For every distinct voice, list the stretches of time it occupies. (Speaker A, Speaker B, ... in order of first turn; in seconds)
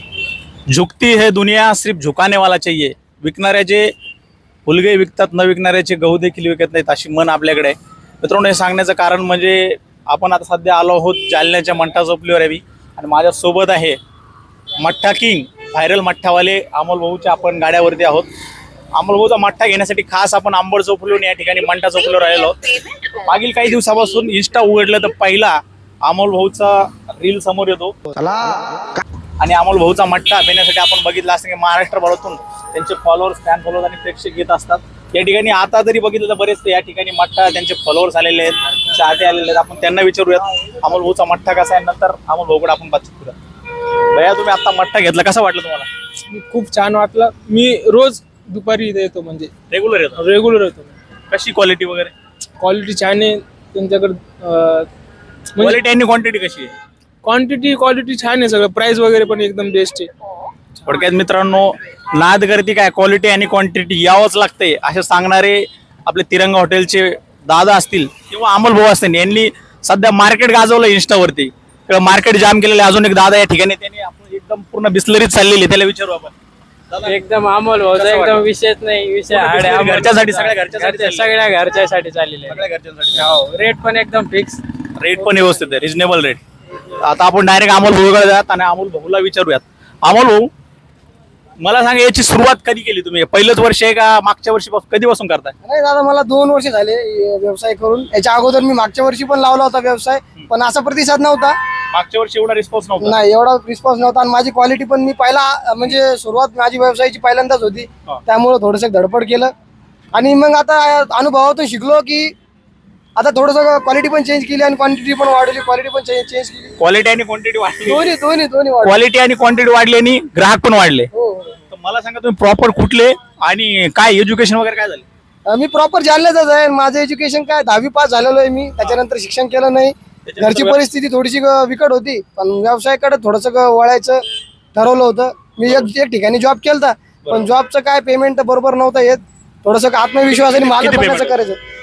Speaker A: 0.7-3.9, 4.7-14.0, 14.8-18.3, 18.9-27.9, 29.4-43.3, 44.0-45.9, 49.7-50.2, 51.3-52.1, 55.6-56.7, 60.8-76.3, 76.9-77.2, 77.9-78.4, 79.3-81.3, 82.5-83.3, 85.0-86.4, 87.0-90.5, 91.6-95.5, 101.9-103.2, 116.8-118.1, 118.8-121.1, 121.7-125.0, 130.2-130.8, 137.2-137.5, 140.3-141.4
Speaker B: 46.3-49.5, 50.2-50.9, 52.6-54.9, 57.2-60.1
Speaker C: 77.0-82.6, 83.1-84.6
Speaker D: 95.6-101.5, 103.0-109.5, 110.1-112.3, 113.2-116.7, 117.8-119.0, 121.1-121.5, 125.5-134.2, 134.7-141.6